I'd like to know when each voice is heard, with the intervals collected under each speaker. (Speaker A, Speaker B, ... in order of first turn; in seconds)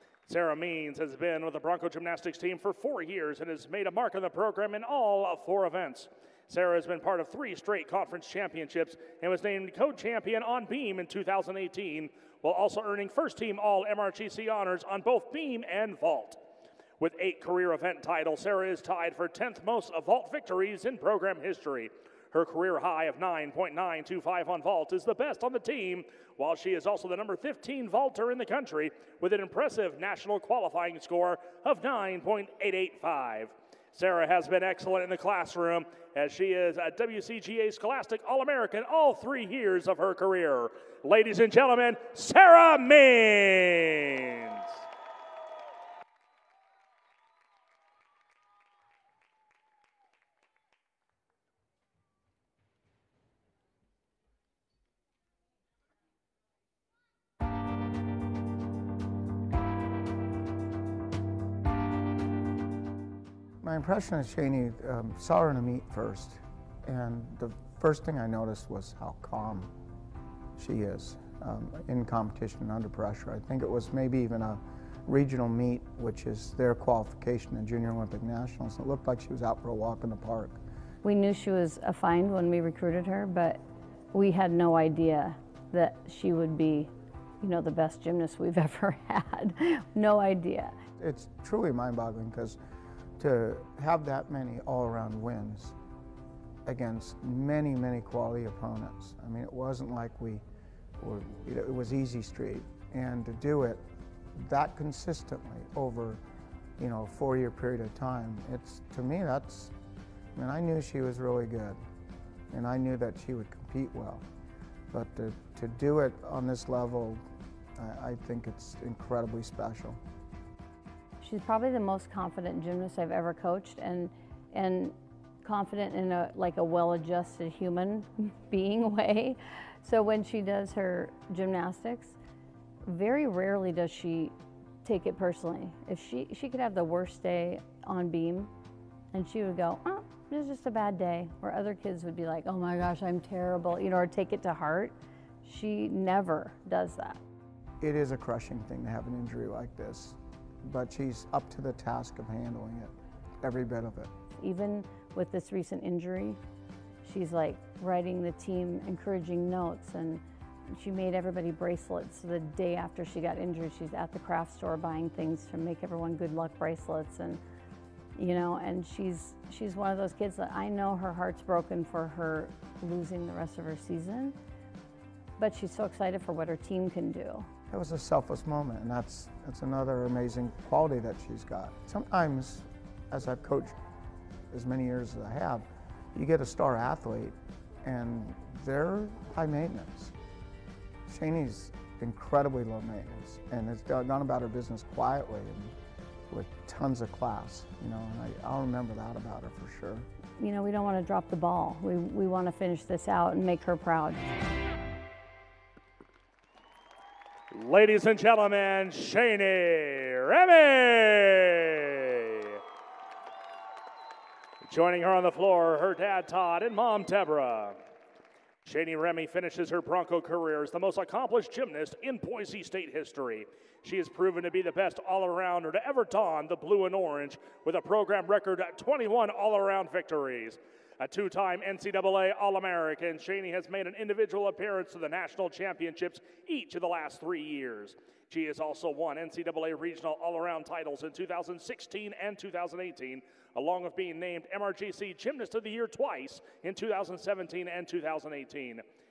Speaker A: 0.3-16.4, 17.0-44.6, 207.5-212.6, 214.7-217.8, 218.7-248.8
Speaker B: 63.6-69.7, 70.6-80.6, 91.0-92.6, 93.2-95.8, 96.7-100.4, 101.0-103.8, 104.4-106.2, 106.8-109.7, 110.3-111.8, 112.5-114.2, 114.9-117.2, 117.8-120.0, 147.8-154.1, 177.7-183.7, 184.5-190.1, 191.1-195.8, 196.3-200.1
Speaker C: 81.0-83.6, 84.1-90.8, 121.2-132.2, 132.9-138.5, 139.1-147.2, 154.4-156.4, 157.0-160.2, 160.8-167.4, 168.2-174.3, 175.4-177.5, 200.4-204.2